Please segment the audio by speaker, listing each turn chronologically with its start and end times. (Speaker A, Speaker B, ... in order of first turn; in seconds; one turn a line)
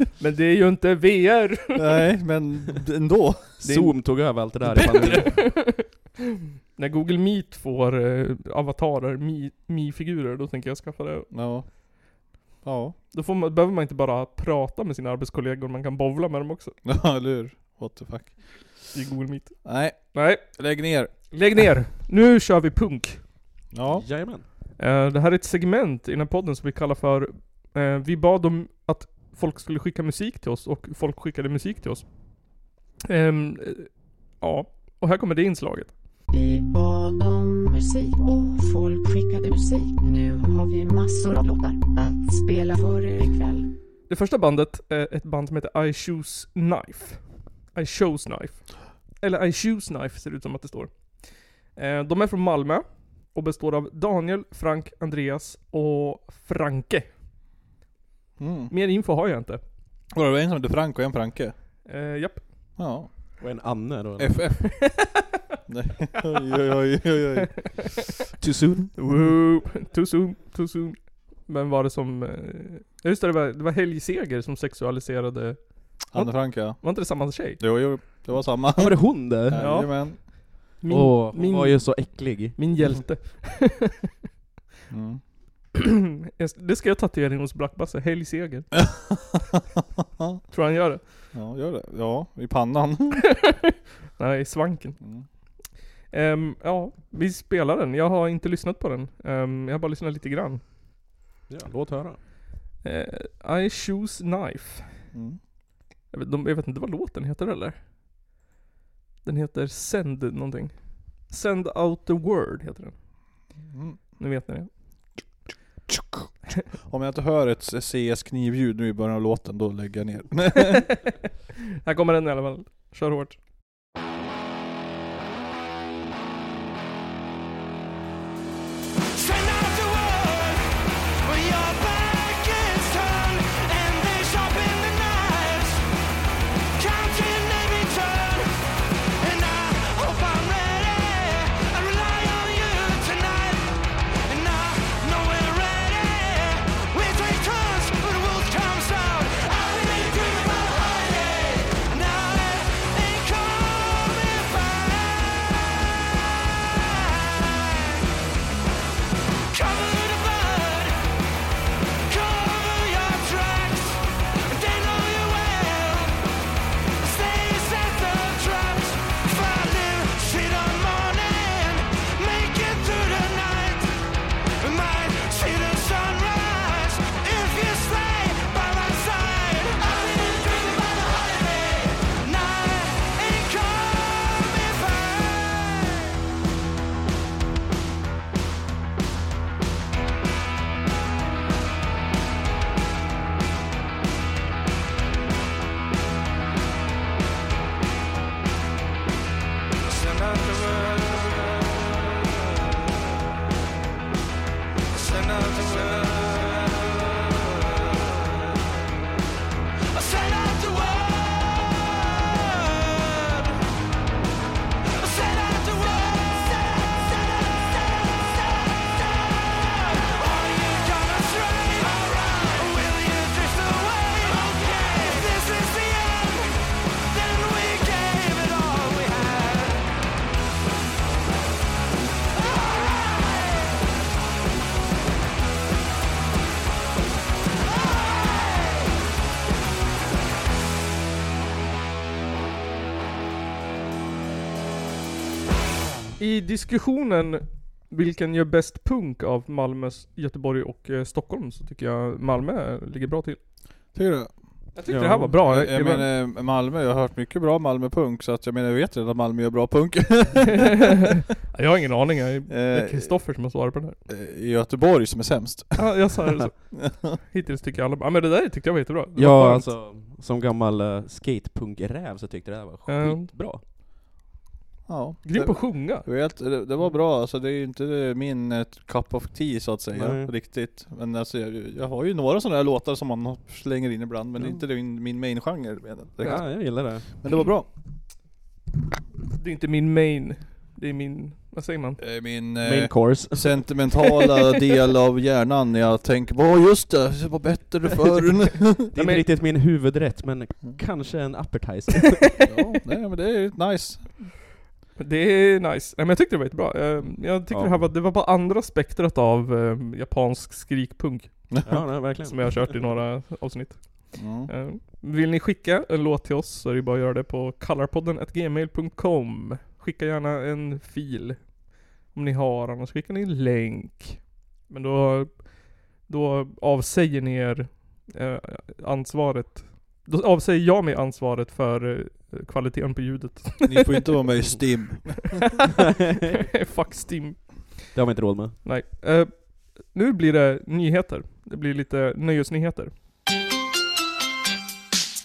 Speaker A: 0.2-2.0
Speaker B: 1.8-4.0
Speaker C: 3.6-5.5
Speaker B: 4.7-5.2
Speaker A: 4.7-6.1
Speaker A: 6.7-11.3
Speaker B: 11.3-11.9
Speaker B: 12.6-12.9
Speaker A: 13.1-16.8
Speaker B: 16.8-18.8
Speaker A: 18.9-20.4
Speaker B: 19.6-21.1
Speaker A: 21.3-23.2
Speaker B: 23.7-24.1
Speaker C: 23.9-24.4
Speaker A: 24.8-32.1
Speaker A: 33.0-35.9
Speaker D: 36.3-43.7
Speaker A: 44.1-50.9
Speaker A: 51.8-57.1
Speaker B: 58.4-58.7
Speaker A: 58.7-59.6
Speaker B: 60.1-61.5
Speaker A: 61.9-62.4
Speaker B: 62.8-63.4
Speaker C: 63.4-64.6
Speaker B: 64.2-65.0
Speaker A: 64.8-65.1
Speaker B: 65.7-68.0
Speaker C: 68.4-68.9
Speaker A: 68.9-77.6
Speaker B: 76.1-80.2
Speaker C: 78.8-79.9
Speaker A: 79.6-84.1
Speaker C: 80.9-82.8
Speaker B: 84.9-85.2
Speaker A: 85.8-88.8
Speaker B: 88.8-89.6
Speaker A: 90.5-91.0
Speaker B: 91.3-93.3
Speaker A: 93.4-95.0
Speaker B: 95.0-95.2
Speaker A: 96.1-100.6
Speaker C: 101.5-102.2
Speaker A: 102.8-104.9
Speaker B: 105.1-105.4
Speaker A: 106.1-107.8
Speaker A: 109.2-112.9
Speaker B: 113.7-114.0
Speaker A: 114.2-114.7
Speaker B: 115.9-120.9
Speaker A: 121.8-123.4
Speaker E: 129.2-130.7
Speaker E: 131.2-135.8
Speaker E: 136.8-138.5
Speaker E: 139.2-143.8
Speaker E: 144.2-155.9
Speaker E: 156.8-158.1
Speaker E: 159.5-160.9
Speaker E: 162.1-166.2
Speaker E: 167.0-173.9
Speaker E: 174.6-186.2
Speaker E: 200.0-202.2
Speaker E: 205.0-208.1
Speaker E: 209.9-213.6
Speaker E: 214.9-229.9
Speaker A: 246.2-253.4
Speaker B: 253.9-254.3
Speaker A: 254.8-256.1
Speaker C: 254.9-255.4
Speaker B: 255.4-261.1
Speaker A: 260.5-264.0
Speaker B: 262.5-263.2
Speaker B: 264.1-266.2
Speaker A: 265.8-269.7
Speaker B: 266.7-267.2
Speaker C: 269.2-273.6
Speaker A: 272.9-273.3
Speaker B: 274.9-287.7
Speaker A: 275.2-276.1
Speaker C: 279.9-280.3
Speaker C: 286.2-287.1
Speaker A: 289.4-292.0
Speaker B: 292.0-298.9
Speaker C: 292.6-293.7
Speaker A: 298.9-299.2
Speaker C: 298.9-302.4
Speaker B: 302.4-304.4
Speaker A: 305.0-311.5
Speaker C: 307.5-307.9
Speaker B: 311.5-311.9
Speaker C: 311.6-312.8
Speaker A: 312.2-321.4
Speaker B: 314.1-314.5
Speaker A: 322.1-325.4
Speaker A: 326.1-334.1
Speaker B: 333.6-335.4
Speaker A: 336.4-337.8
Speaker C: 337.9-338.6
Speaker A: 338.6-342.9